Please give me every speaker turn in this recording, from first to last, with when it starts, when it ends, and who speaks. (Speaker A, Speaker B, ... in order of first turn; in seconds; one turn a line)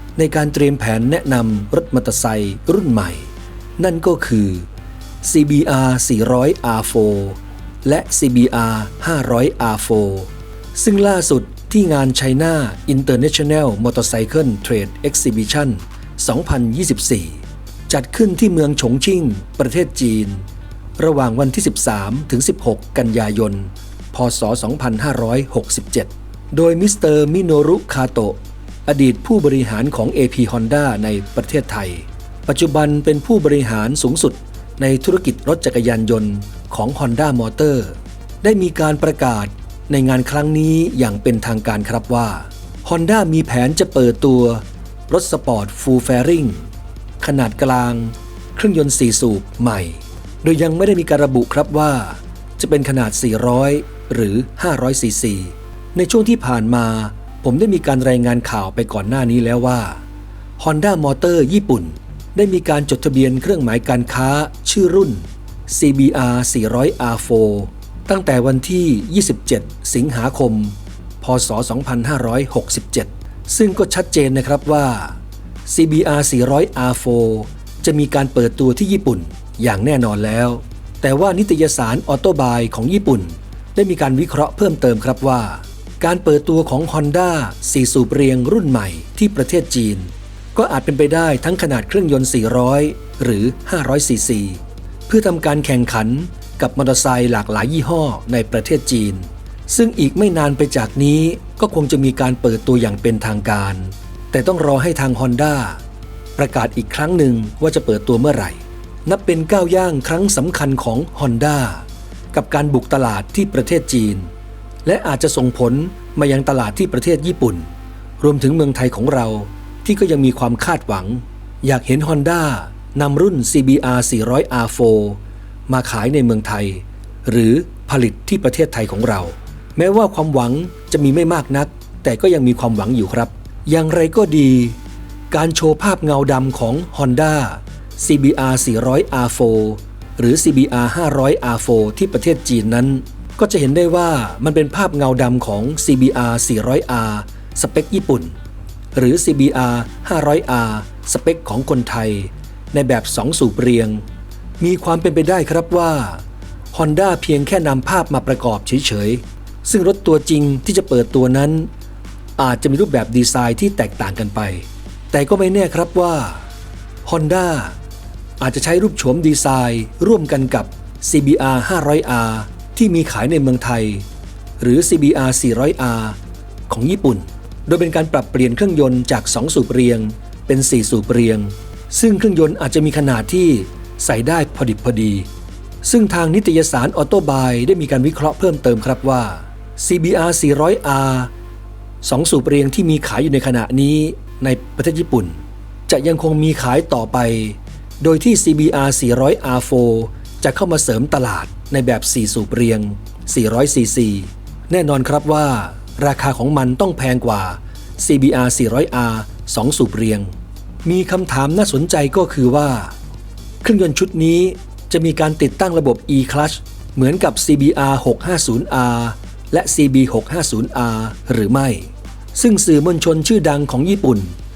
Speaker A: 0.1-4.7
Speaker A: 5.2-20.4
Speaker A: 21.0-46.7
Speaker A: 47.2-60.0
Speaker A: 60.6-105.8
Speaker A: 106.3-114.3
Speaker A: 114.8-134.8
Speaker A: 135.3-148.3
Speaker A: 148.9-154.1
Speaker A: 154.6-161.7
Speaker A: 162.4-166.5
Speaker A: 167.1-167.8
Speaker A: 168.4-174.1
Speaker A: 174.6-185.3
Speaker A: 185.8-191.3
Speaker A: 192.0-212.9
Speaker A: 213.6-224.4